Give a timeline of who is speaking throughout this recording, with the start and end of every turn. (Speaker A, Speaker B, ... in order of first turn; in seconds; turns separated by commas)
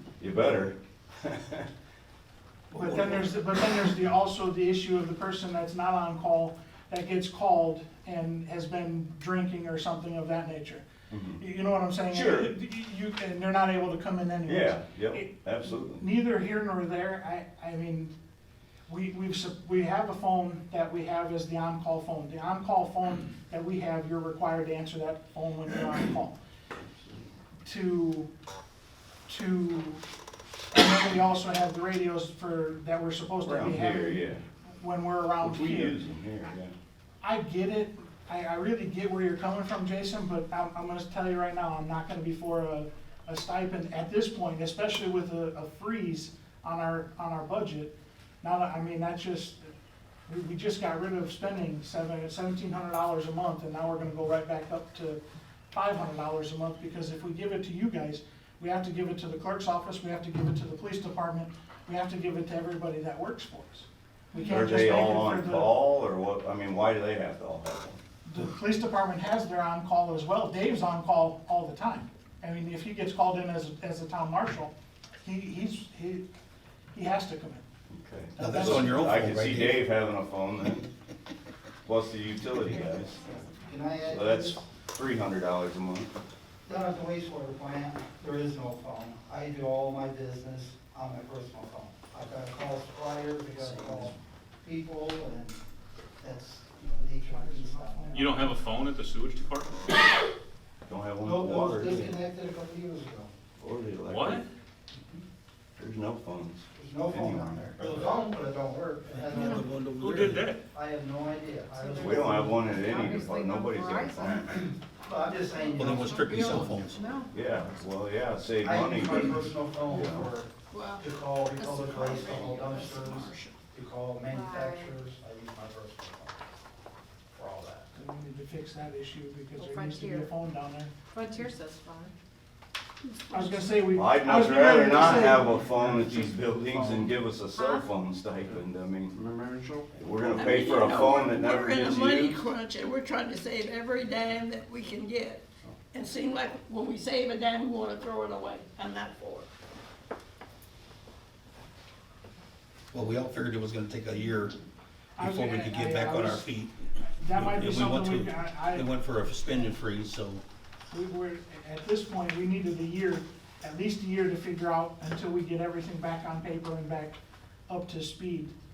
Speaker A: 0.2-1.7, Speaker B: 2.7-18.1, Speaker A: 11.1-11.4, Speaker A: 12.1-12.5, Speaker A: 14.4-16.1, Speaker B: 18.9-26.4, Speaker B: 27.6-28.3, Speaker B: 29.3-30.0, Speaker B: 30.7-34.3, Speaker A: 33.4-34.4, Speaker B: 34.8-36.0, Speaker A: 35.4-36.7, Speaker B: 37.2-49.7, Speaker B: 50.3-65.7, Speaker A: 64.5-68.0, Speaker B: 68.2-76.3, Speaker B: 76.9-77.6, Speaker A: 77.9-80.9, Speaker B: 78.4-78.9, Speaker C: 78.4-79.8, Speaker A: 81.8-83.3, Speaker D: 83.3-84.6, Speaker A: 84.1-86.1, Speaker D: 86.7-95.6, Speaker D: 96.2-98.4, Speaker B: 97.3-98.6, Speaker E: 98.1-100.0, Speaker A: 100.9-102.2, Speaker D: 101.2-103.3, Speaker A: 103.6-104.4, Speaker E: 104.1-104.5, Speaker A: 105.8-108.2, Speaker D: 106.8-110.1, Speaker C: 109.1-110.5, Speaker E: 110.0-110.6, Speaker D: 110.7-113.2, Speaker F: 111.7-114.5, Speaker A: 112.0-114.5, Speaker D: 114.4-116.9, Speaker F: 115.6-117.4, Speaker C: 115.8-117.0, Speaker A: 117.3-120.3, Speaker D: 118.6-126.4, Speaker G: 120.7-123.6, Speaker F: 124.3-124.9, Speaker D: 127.3-127.9, Speaker B: 127.9-130.9, Speaker F: 129.5-130.3, Speaker F: 131.1-132.1, Speaker B: 133.3-135.6, Speaker A: 133.9-139.2, Speaker H: 135.9-137.1, Speaker F: 137.6-137.9, Speaker H: 139.1-140.8, Speaker A: 139.9-142.4, Speaker G: 140.3-149.5, Speaker C: 152.9-154.6, Speaker B: 155.2-156.5, Speaker C: 155.2-160.4, Speaker B: 157.0-158.9, Speaker B: 160.9-168.5